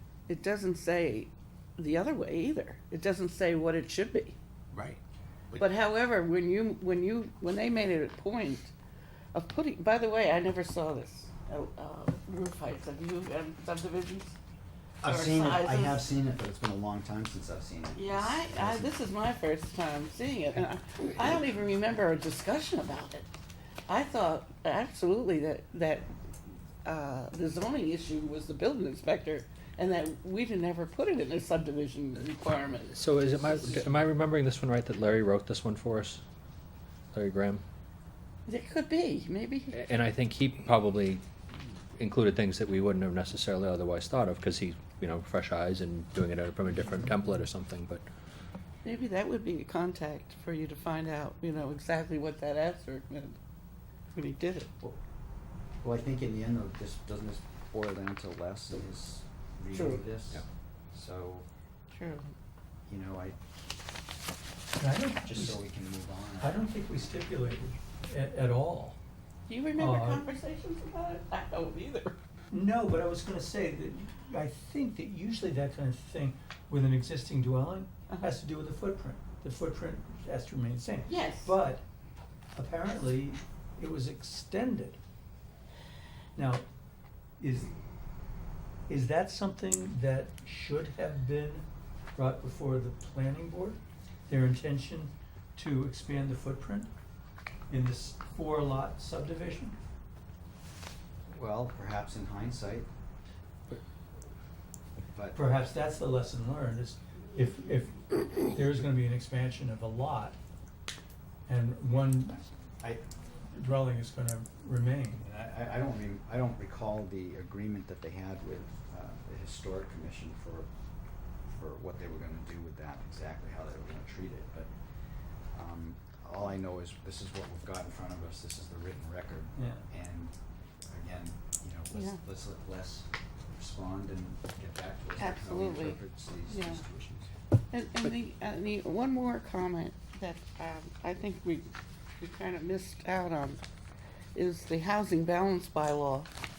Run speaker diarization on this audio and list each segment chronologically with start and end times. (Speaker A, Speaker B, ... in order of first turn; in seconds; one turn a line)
Speaker A: 0.3-4.4
Speaker B: 4.7-5.0
Speaker A: 5.5-8.7
Speaker A: 9.3-14.4
Speaker B: 15.0-18.9
Speaker A: 15.0-16.1
Speaker A: 17.9-23.3
Speaker A: 23.9-26.1
Speaker A: 26.8-33.9
Speaker C: 32.9-36.2
Speaker C: 37.1-37.6
Speaker A: 38.5-39.8
Speaker C: 39.7-41.2
Speaker C: 42.0-48.1
Speaker B: 46.8-47.1
Speaker A: 48.8-53.4
Speaker A: 54.1-54.7
Speaker B: 55.8-61.5
Speaker A: 59.7-60.0
Speaker A: 61.9-62.3
Speaker B: 62.9-63.4
Speaker D: 64.8-65.6
Speaker B: 65.2-66.6
Speaker D: 66.4-69.0
Speaker A: 69.5-72.2
Speaker D: 69.8-70.2
Speaker D: 72.5-81.8
Speaker A: 81.1-81.5
Speaker D: 82.5-85.0
Speaker D: 86.3-86.7
Speaker D: 87.4-87.7
Speaker D: 88.9-96.9
Speaker D: 97.7-99.8
Speaker B: 101.3-102.9
Speaker D: 105.3-110.4
Speaker D: 111.5-112.4
Speaker D: 113.5-115.2
Speaker B: 115.2-120.7
Speaker B: 121.5-124.7
Speaker B: 125.5-130.3
Speaker D: 129.5-129.8
Speaker B: 130.8-137.3
Speaker A: 131.9-132.2
Speaker A: 135.2-136.8
Speaker A: 137.7-143.6
Speaker A: 144.3-146.3